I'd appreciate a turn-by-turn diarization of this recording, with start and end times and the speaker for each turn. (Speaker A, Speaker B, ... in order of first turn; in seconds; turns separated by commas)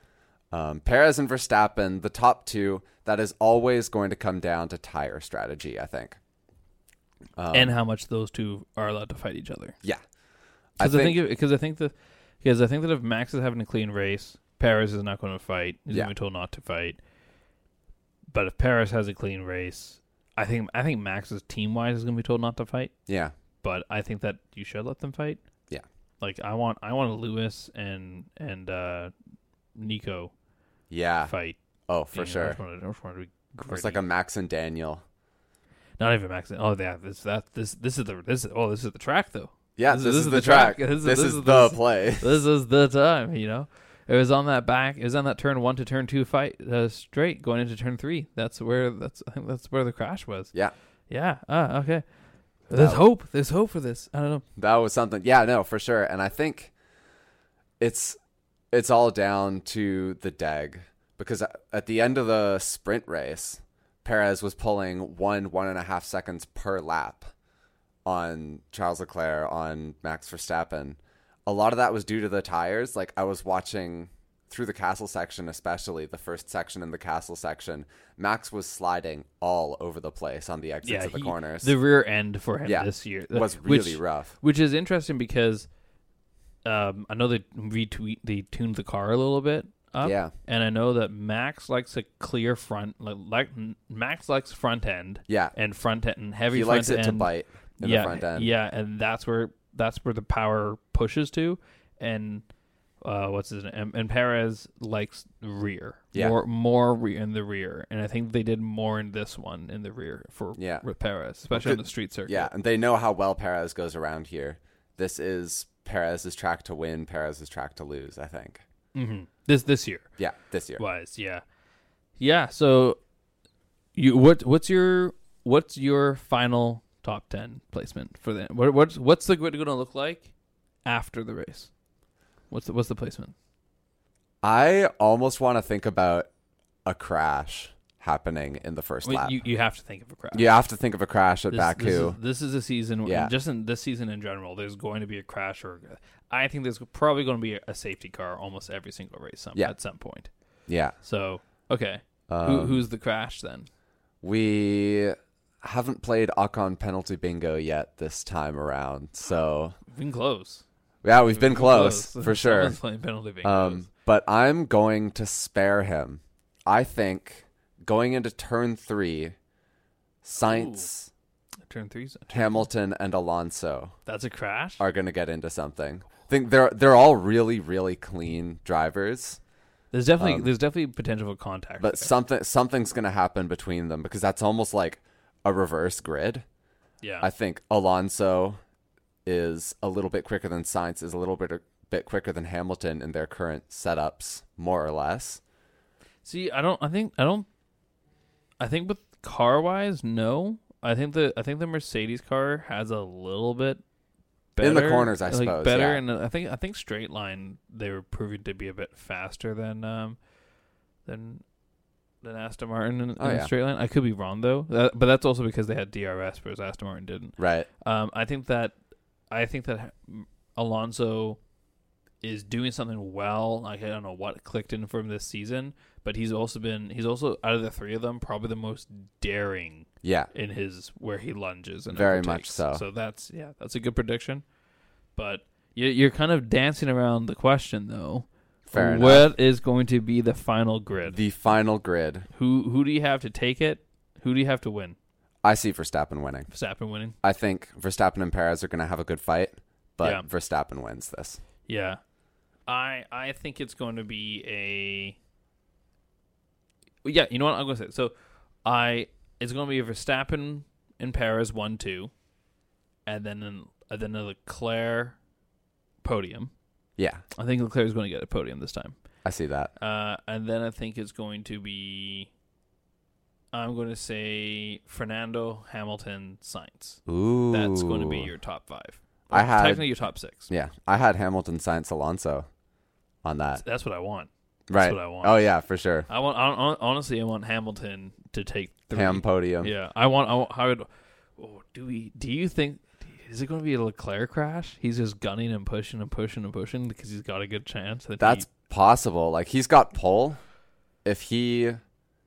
Speaker A: 0.5-6.2, Speaker A: 7.4-7.7, Speaker B: 7.5-9.7, Speaker A: 10.8-11.2, Speaker B: 10.8-17.0, Speaker B: 18.3-22.9, Speaker A: 23.1-23.3, Speaker B: 23.6-25.4, Speaker B: 26.2-29.1, Speaker B: 29.7-30.3, Speaker A: 30.9-31.3, Speaker B: 31.2-31.6, Speaker A: 31.9-32.6, Speaker B: 32.1-34.0, Speaker A: 33.7-35.0, Speaker B: 36.0-50.5, Speaker A: 39.8-42.4, Speaker B: 51.1-52.0, Speaker B: 52.7-54.4, Speaker A: 52.7-53.0, Speaker A: 54.5-56.7, Speaker A: 57.8-58.2, Speaker A: 58.7-67.3, Speaker A: 68.0-81.7, Speaker B: 80.8-85.7, Speaker A: 82.6-84.3, Speaker B: 86.6-102.4, Speaker A: 90.0-90.3, Speaker A: 95.3-95.5, Speaker A: 96.5-98.5, Speaker B: 103.0-112.5, Speaker A: 110.5-110.8, Speaker A: 111.5-118.6, Speaker B: 118.9-120.1, Speaker A: 120.2-120.8, Speaker B: 120.8-121.4, Speaker B: 122.2-123.0, Speaker B: 123.9-130.3, Speaker B: 130.8-131.7, Speaker B: 132.5-133.3, Speaker A: 134.4-136.3, Speaker A: 136.8-139.3, Speaker B: 139.0-140.5, Speaker A: 140.3-142.2, Speaker B: 141.5-150.3, Speaker A: 143.0-143.3, Speaker A: 150.7-150.9, Speaker B: 151.0-153.7, Speaker A: 152.3-152.8, Speaker A: 154.2-159.8, Speaker B: 159.9-160.6, Speaker A: 161.0-162.8, Speaker B: 161.3-163.9, Speaker A: 163.4-169.3, Speaker A: 170.2-171.1, Speaker B: 170.4-170.9, Speaker B: 171.7-172.7, Speaker A: 172.3-173.9, Speaker B: 174.1-174.8, Speaker A: 174.8-179.4, Speaker B: 179.9-182.1, Speaker A: 180.2-180.5, Speaker A: 181.8-186.4, Speaker B: 187.0-187.3, Speaker A: 187.2-188.6, Speaker A: 189.2-195.4, Speaker B: 196.2-197.5, Speaker B: 198.6-203.8, Speaker B: 204.6-210.2, Speaker A: 204.6-206.0, Speaker B: 211.1-211.4, Speaker B: 212.2-218.7, Speaker A: 213.2-213.5, Speaker A: 217.4-217.7, Speaker B: 219.3-221.4, Speaker B: 222.2-234.4, Speaker A: 230.0-230.3, Speaker A: 231.9-232.8, Speaker B: 235.2-241.2, Speaker A: 238.7-239.3, Speaker A: 241.1-242.3, Speaker B: 242.3-244.9, Speaker A: 245.4-246.5, Speaker B: 246.5-247.2, Speaker A: 247.2-251.4, Speaker B: 251.7-252.0, Speaker B: 252.7-255.2, Speaker B: 257.0-258.1, Speaker B: 258.6-262.1, Speaker B: 263.1-265.2, Speaker B: 266.0-266.5, Speaker A: 267.0-267.2, Speaker B: 267.4-269.0, Speaker A: 269.2-269.7, Speaker B: 269.8-272.3, Speaker B: 273.5-280.5, Speaker A: 277.1-278.3, Speaker A: 279.3-279.9, Speaker A: 280.5-282.5, Speaker A: 283.2-283.6, Speaker B: 283.6-285.5, Speaker A: 284.7-286.1, Speaker B: 286.1-298.5, Speaker A: 288.9-289.7, Speaker A: 298.2-300.4, Speaker A: 301.0-301.8